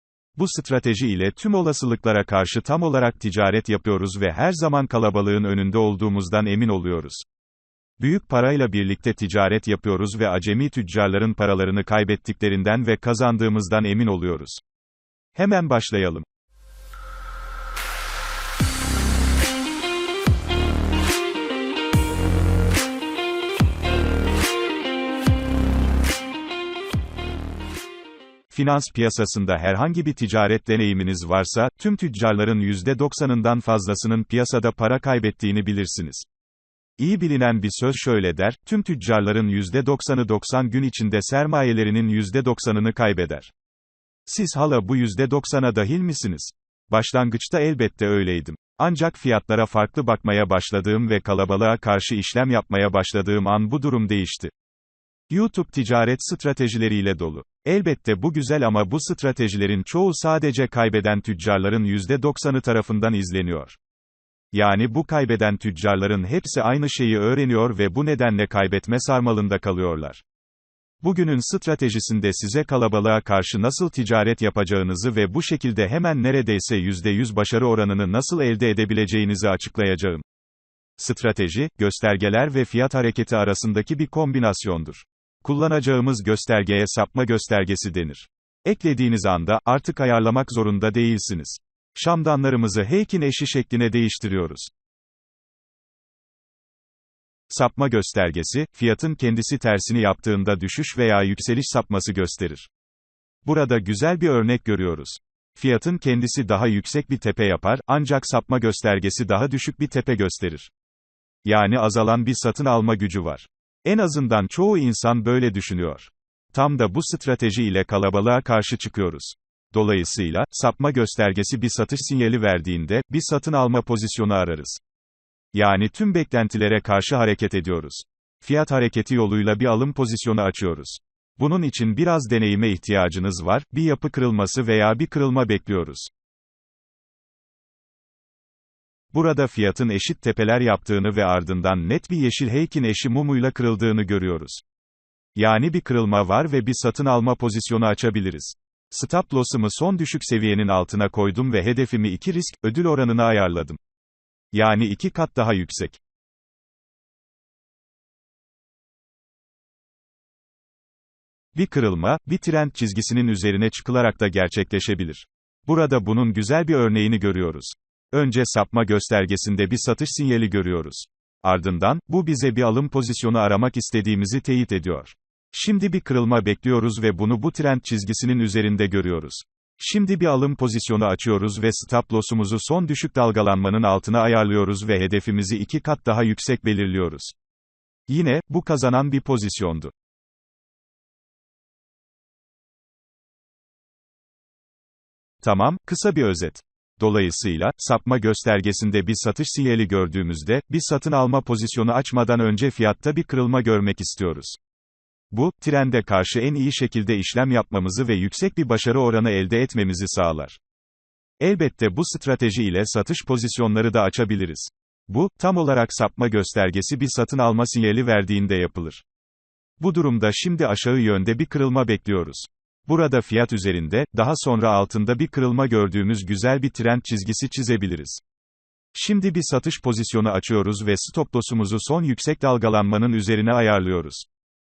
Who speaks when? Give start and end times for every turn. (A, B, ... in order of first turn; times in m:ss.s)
0:00.4-0:07.2 A
0:08.0-0:14.6 A
0:15.3-0:16.2 A
0:28.5-0:36.2 A
0:37.0-0:43.5 A
0:44.2-0:54.5 A
0:55.3-1:03.8 A
1:04.5-1:10.2 A
1:11.0-1:20.2 A
1:21.0-1:34.7 A
1:37.5-1:42.7 A
1:43.4-1:50.7 A
1:51.4-2:04.8 A
2:05.5-2:16.1 A
2:19.1-2:24.6 A
2:25.4-2:33.8 A
2:34.5-2:36.0 A
2:41.5-3:07.3 A
3:08.1-3:09.9 A
3:15.4-3:24.6 A
3:25.3-3:30.6 A
3:31.4-3:39.0 A
3:39.8-3:48.2 A
3:48.9-3:54.3 A